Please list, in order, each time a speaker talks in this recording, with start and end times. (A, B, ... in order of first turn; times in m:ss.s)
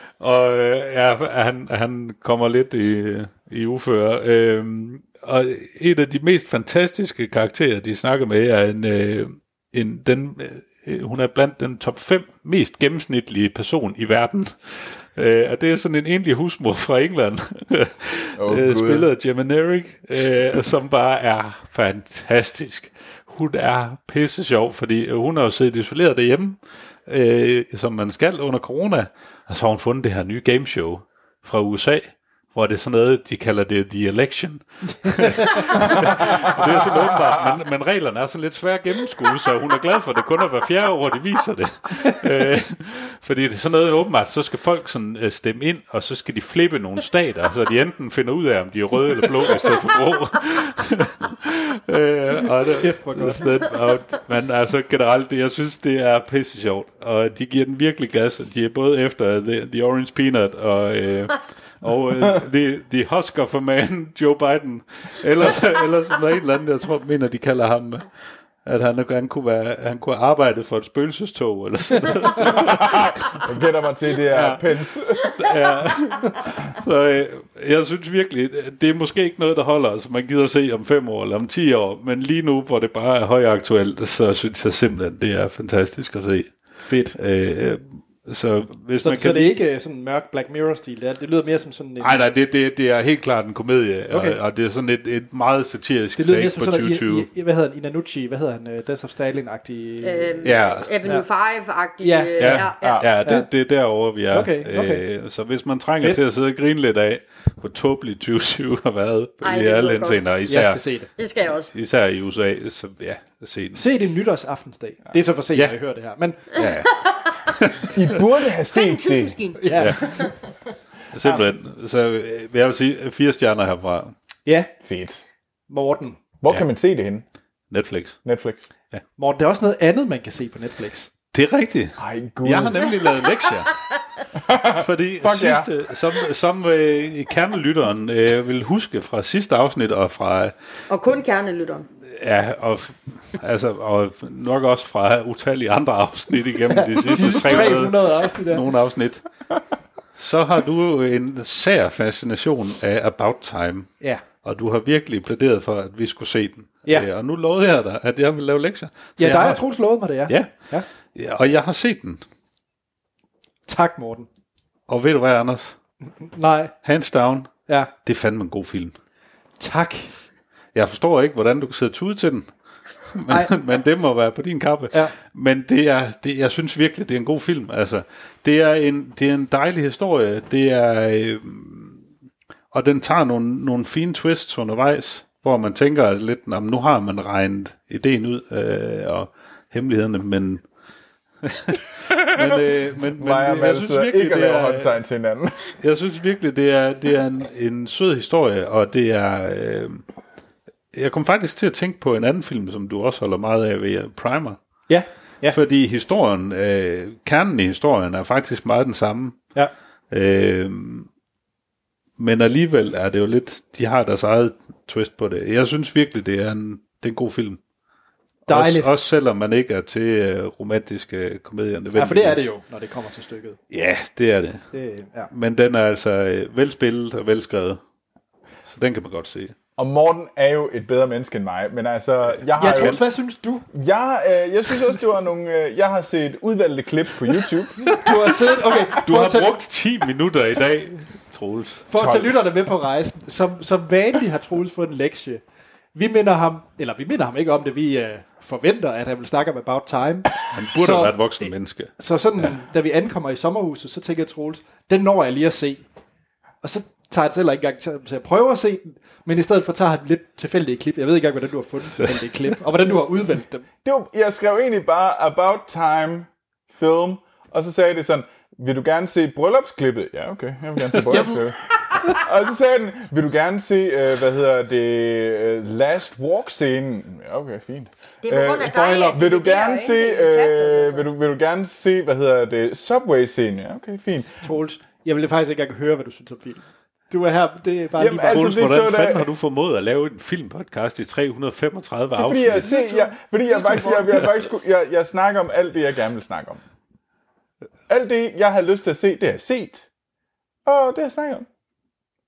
0:00.2-1:08.1 A
0:18.4-0:19.1 B
0:35.2-0:35.6 C
0:35.9-0:37.2 B
0:52.8-0:53.5 C
1:08.6-1:13.4 A
1:12.4-1:15.4 B
1:14.3-1:14.6 A
1:15.2-1:26.6 A
1:26.8-1:27.2 C
1:27.1-1:29.6 A
1:29.0-1:32.3 C
1:32.0-1:37.3 A
1:34.1-1:34.4 C
1:36.2-1:41.2 C
1:40.0-1:43.0 D
1:40.4-1:40.9 A
1:42.0-1:43.5 C
1:42.4-1:50.8 A
1:42.8-1:43.1 B
1:44.3-1:45.0 C
1:49.4-1:50.2 D
1:50.5-1:51.1 C
1:51.2-1:51.7 D
1:51.7-1:53.8 A
1:53.7-1:56.5 C
1:56.5-1:58.0 A
1:56.6-1:57.3 D
1:57.9-1:59.4 B
1:58.7-2:00.4 D
1:59.6-2:00.2 C
1:59.8-2:00.1 A
2:01.1-2:04.1 A
2:04.5-2:04.7 C
2:04.8-2:05.2 B
2:05.7-2:06.2 C
2:06.4-2:07.2 B
2:07.7-2:08.2 A
2:08.2-2:08.6 B
2:09.2-2:11.1 C
2:11.3-2:13.8 A
2:12.0-2:12.9 B
2:14.4-2:15.7 B
2:14.8-2:20.5 A
2:20.9-2:21.9 D
2:22.1-2:29.2 A
2:26.7-2:28.7 C
2:30.2-2:33.9 A
2:34.4-2:39.6 A
2:39.2-2:40.9 C
2:40.3-2:40.5 A
2:41.1-2:42.2 A
2:43.7-2:44.3 C
2:44.9-2:45.8 A
2:46.2-2:46.7 C
2:46.8-2:47.5 A
2:48.0-2:48.9 A
2:49.6-2:50.1 C
2:50.8-2:52.5 A
2:53.1-3:02.0 A
2:53.3-2:53.6 C
3:02.7-3:10.6 A
3:11.4-3:15.0 A
3:13.2-3:15.7 B
3:15.8-3:20.0 A
3:20.9-3:24.6 A
3:24.9-3:25.6 C
3:25.5-3:29.4 A
3:30.1-3:31.1 A
3:32.2-3:37.6 A
3:38.5-3:38.9 C
3:38.5-3:42.5 A
3:42.0-3:43.6 C
3:43.7-3:44.6 A
3:44.7-3:45.3 C
3:45.3-3:47.8 A
3:48.7-3:49.6 A
3:49.8-3:53.0 B
3:52.5-3:53.0 A
3:52.6-3:53.7 C
3:53.7-3:58.0 B
3:57.8-3:59.6 C
3:58.9-4:01.8 A
4:01.9-4:05.4 C
4:02.0-4:02.3 B
4:06.0-4:15.8 C
4:10.5-4:11.9 A
4:16.6-4:23.7 C
4:23.8-4:44.4 B
4:38.2-4:41.1 D
4:44.4-4:48.6 C
4:48.0-4:49.3 B
4:48.3-4:52.7 A
4:52.2-4:56.6 B
4:52.7-4:54.2 C
4:57.9-4:59.9 B
5:00.7-5:01.5 B